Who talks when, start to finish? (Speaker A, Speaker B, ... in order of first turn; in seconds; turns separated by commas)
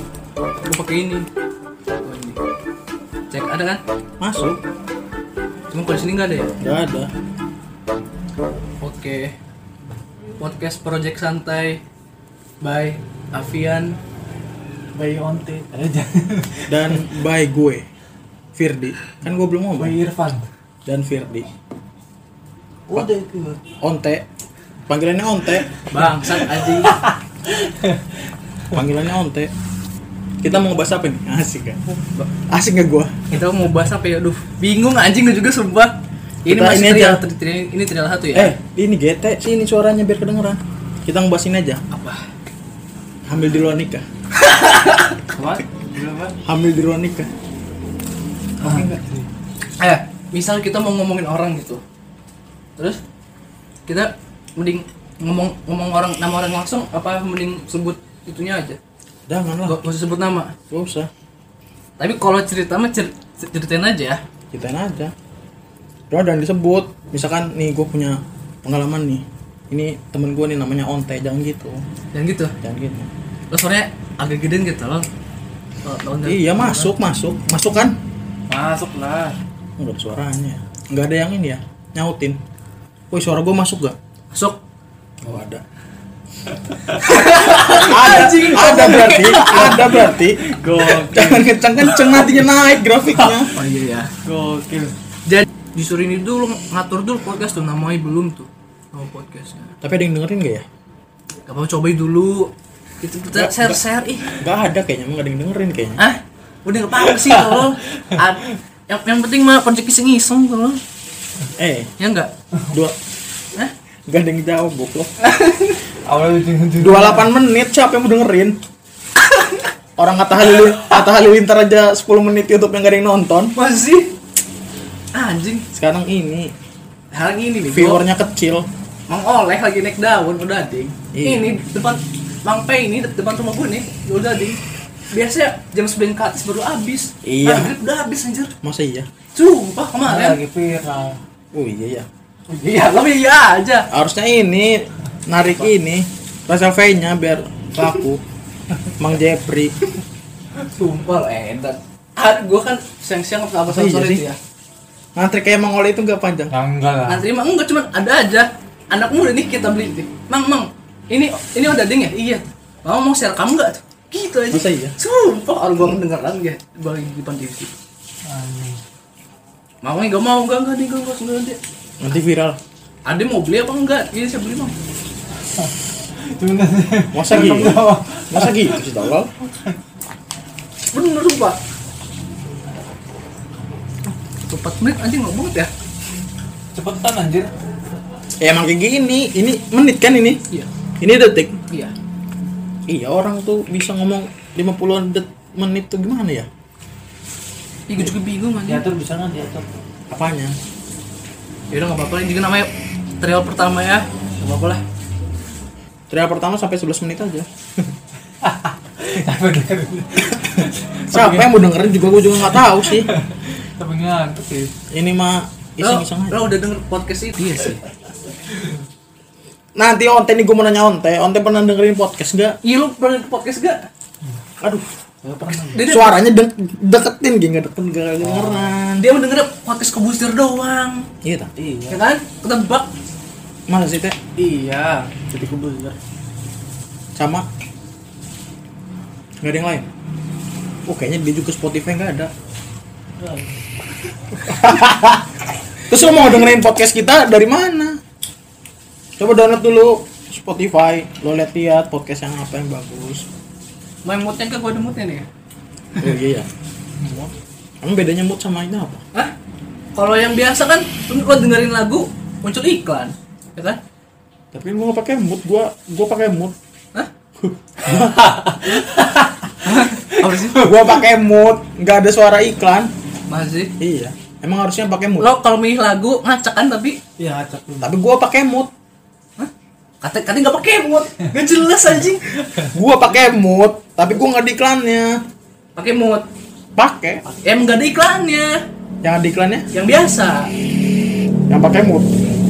Speaker A: 0.7-1.3, Speaker A: 2.0-2.4, Speaker A: 3.3-3.8, Speaker B: 4.2-4.6, Speaker A: 5.7-6.5, Speaker B: 6.6-7.1, Speaker A: 8.8-9.3, Speaker A: 10.4-11.8, Speaker A: 12.6-14.0, Speaker C: 14.9-17.0, Speaker B: 16.7-17.9, Speaker B: 18.6-20.0, Speaker C: 19.8-20.5, Speaker B: 20.9-21.5, Speaker C: 22.9-23.6, Speaker B: 23.8-24.2, Speaker B: 24.9-25.7, Speaker A: 25.9-27.0, Speaker C: 26.3-28.0, Speaker B: 28.7-29.5, Speaker B: 30.4-31.8, Speaker B: 32.5-33.2, Speaker A: 33.3-38.5, Speaker B: 36.5-37.2, Speaker B: 38.3-41.8, Speaker A: 41.9-42.2, Speaker B: 43.3-44.0, Speaker A: 44.4-45.2, Speaker C: 45.3-46.4, Speaker B: 46.4-47.3, Speaker C: 48.6-49.3, Speaker B: 48.6-49.0, Speaker A: 49.8-51.8, Speaker A: 53.9-58.8, Speaker B: 59.3-59.8, Speaker A: 59.7-60.5, Speaker B: 60.7-61.1, Speaker A: 62.0-64.2, Speaker B: 64.5-65.1, Speaker B: 66.1-71.8, Speaker A: 72.1-72.5, Speaker B: 72.6-73.1, Speaker A: 73.5-75.1, Speaker A: 75.8-76.9, Speaker B: 76.3-78.0, Speaker C: 78.5-79.4, Speaker B: 79.8-82.4, Speaker B: 83.1-84.0, Speaker A: 84.3-84.6, Speaker B: 85.2-85.6, Speaker A: 86.9-89.9, Speaker B: 87.5-93.5, Speaker C: 89.3-92.3, Speaker A: 93.5-94.1, Speaker C: 94.2-94.9, Speaker A: 95.3-99.8, Speaker B: 99.8-100.7, Speaker A: 101.5-104.4, Speaker B: 103.3-106.0, Speaker A: 106.0-110.8, Speaker B: 111.6-111.9, Speaker A: 112.0-112.3, Speaker B: 112.7-113.0, Speaker B: 114.1-115.1, Speaker A: 115.2-115.8, Speaker C: 116.1-117.3, Speaker B: 116.8-118.6, Speaker A: 119.2-119.7, Speaker B: 120.0-123.5, Speaker A: 123.5-124.1, Speaker A: 125.1-125.7, Speaker B: 125.7-126.5, Speaker A: 127.1-128.1, Speaker B: 127.7-128.7, Speaker A: 129.1-134.6, Speaker B: 131.1-131.5, Speaker A: 135.1-138.5, Speaker B: 137.2-137.8, Speaker B: 138.6-139.1, Speaker A: 139.3-140.4, Speaker C: 140.1-141.2, Speaker B: 141.5-142.1, Speaker A: 142.5-143.9, Speaker B: 143.9-148.2, Speaker B: 149.0-149.7, Speaker A: 150.6-154.4, Speaker B: 153.7-154.3, Speaker B: 155.2-156.5, Speaker C: 156.5-157.3, Speaker A: 157.1-167.8, Speaker B: 164.5-164.9, Speaker C: 168.3-168.8, Speaker A: 169.8-171.6, Speaker B: 172.0-172.6, Speaker A: 173.1-174.7, Speaker C: 176.3-178.9, Speaker B: 177.1-179.3, Speaker A: 180.9-181.6, Speaker A: 184.5-185.7, Speaker C: 186.7-187.5, Speaker B: 188.4-190.4, Speaker B: 191.0-191.6, Speaker B: 192.9-196.5, Speaker A: 197.9-198.8, Speaker C: 198.6-199.6, Speaker B: 200.1-200.6, Speaker A: 201.7-204.8, Speaker B: 206.1-207.9, Speaker C: 208.4-211.5, Speaker B: 210.4-213.1, Speaker C: 212.5-214.7, Speaker B: 214.9-216.6, Speaker A: 215.8-217.8, Speaker B: 219.8-222.6, Speaker A: 222.6-223.9, Speaker B: 224.6-224.9, Speaker C: 225.2-225.8, Speaker A: 225.7-226.2, Speaker B: 225.7-229.1, Speaker C: 228.2-228.8, Speaker A: 229.0-231.1, Speaker B: 231.2-231.5, Speaker C: 231.6-232.0, Speaker A: 231.9-232.9, Speaker B: 233.7-234.2, Speaker C: 234.4-236.0, Speaker B: 237.2-237.5, Speaker B: 239.4-239.9, Speaker B: 240.9-242.3, Speaker C: 243.2-243.6, Speaker B: 244.4-245.2, Speaker B: 245.9-248.0, Speaker B: 249.2-253.3, Speaker A: 254.1-255.3, Speaker B: 256.0-256.5, Speaker C: 257.0-257.3, Speaker B: 257.8-259.0, Speaker A: 259.9-263.8, Speaker B: 264.5-266.6, Speaker B: 267.4-268.3, Speaker C: 267.9-269.3, Speaker A: 269.6-270.7, Speaker B: 270.6-272.9, Speaker A: 273.3-273.7, Speaker B: 273.8-275.3, Speaker A: 275.2-277.0, Speaker C: 277.2-277.9, Speaker B: 277.8-278.7, Speaker A: 279.4-282.2, Speaker B: 282.7-285.2, Speaker A: 285.8-286.3, Speaker B: 286.8-287.2, Speaker A: 287.4-288.6, Speaker B: 289.0-289.7, Speaker A: 289.7-290.5, Speaker B: 291.5-292.1